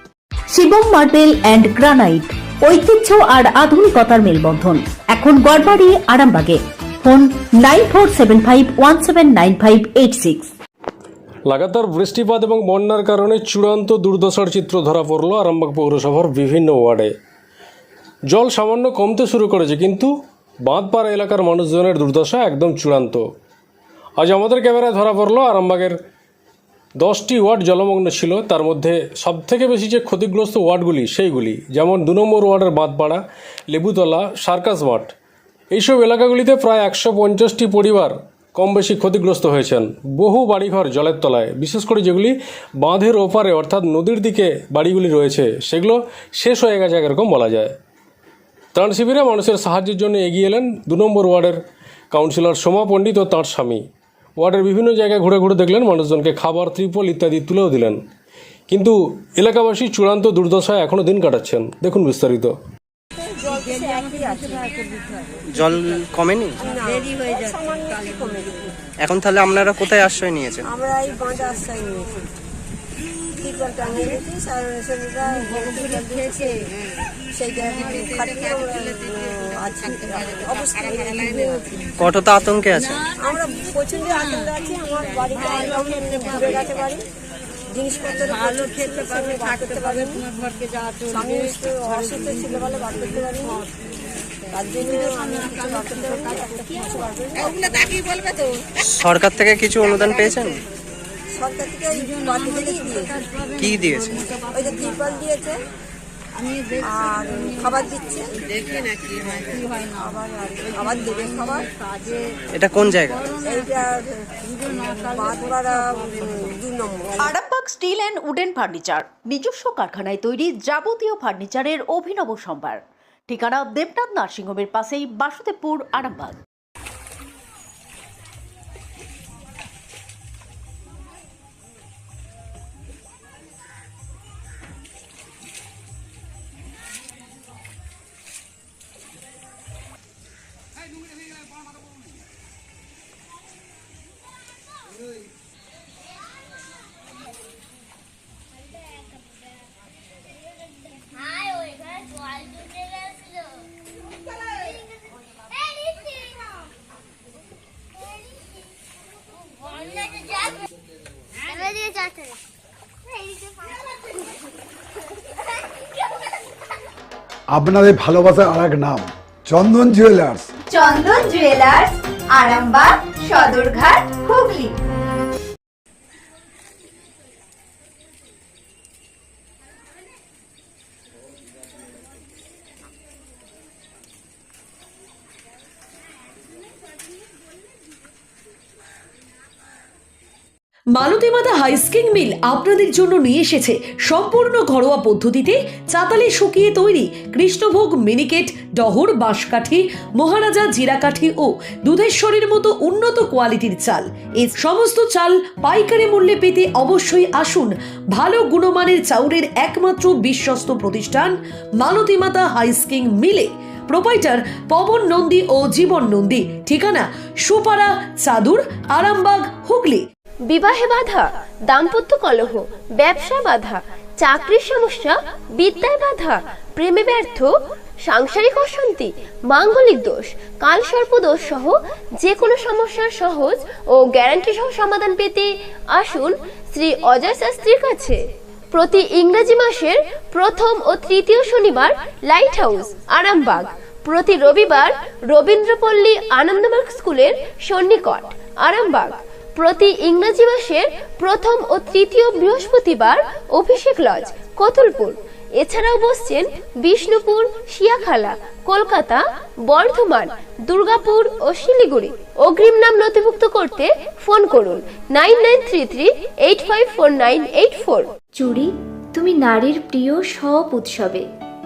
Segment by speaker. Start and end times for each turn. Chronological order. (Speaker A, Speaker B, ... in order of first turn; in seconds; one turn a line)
Speaker A: 0.5-10.5
Speaker B: 11.5-17.1
Speaker B: 18.3-20.1
Speaker B: 20.7-23.2
Speaker B: 24.2-26.0
Speaker B: 27.0-35.1
Speaker B: 35.7-47.7
Speaker B: 48.7-51.6
Speaker B: 52.1-53.8
Speaker B: 54.4-58.0
Speaker B: 58.7-62.5
Speaker C: 63.2-65.3
Speaker D: 65.5-66.6
Speaker C: 66.6-68.9
Speaker D: 69.0-70.6
Speaker C: 70.7-72.2
Speaker C: 73.4-76.7
Speaker C: 77.3-81.9
Speaker D: 82.0-83.0
Speaker C: 83.2-87.0
Speaker C: 87.7-90.2
Speaker C: 91.1-93.7
Speaker C: 94.5-98.4
Speaker D: 98.8-100.6
Speaker C: 101.3-103.2
Speaker D: 103.6-104.2
Speaker C: 104.4-105.6
Speaker C: 106.8-111.7
Speaker D: 112.5-113.2
Speaker C: 113.4-117.3
Speaker A: 117.2-126.4
Speaker E: 167.5-170.5
Speaker F: 170.7-174.7
Speaker G: 190.9-220.1
Speaker H: 220.5-238.2
Speaker H: 238.7-268.1
Speaker F: 268.4-271.2